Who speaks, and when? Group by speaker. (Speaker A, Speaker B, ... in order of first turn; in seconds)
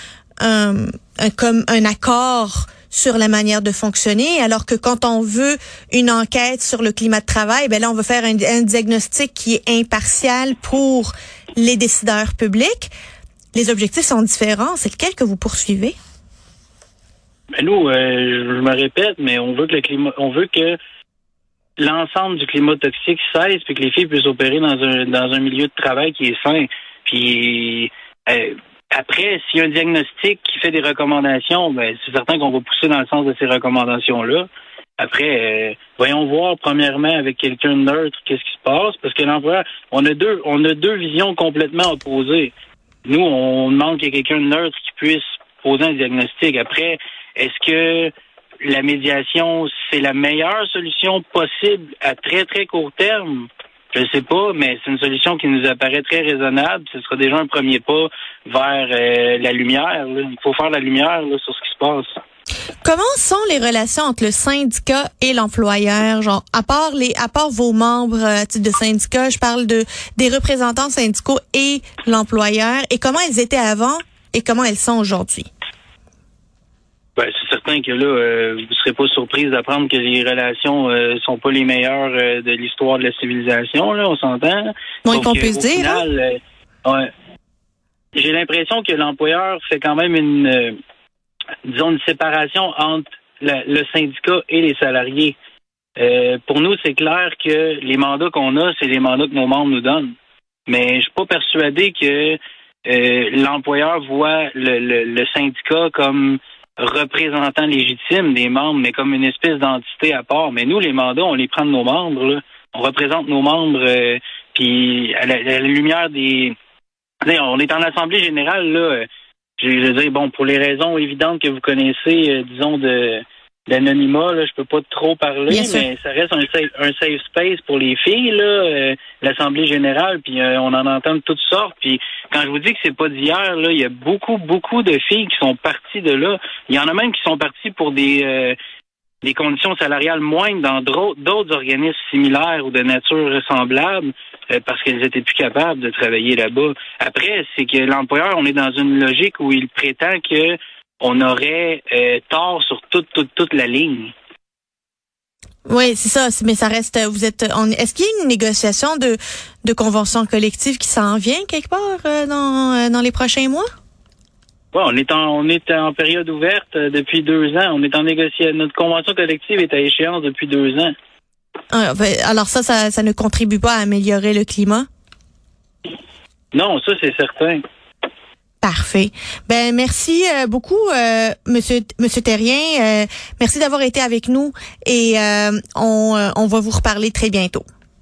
Speaker A: 0.4-12.9, 13.5-15.9, 62.8-75.5, 85.0-86.0, 125.5-125.9, 155.7-163.7, 171.7-174.9, 178.6-187.6
Speaker B: 17.6-20.8, 21.8-42.5, 43.0-62.1, 77.2-87.1, 88.1-90.8, 91.6-95.3, 96.0-100.1, 100.7-116.5, 117.2-119.1, 119.6-138.6, 139.2-154.1, 164.7-170.9, 176.5-177.6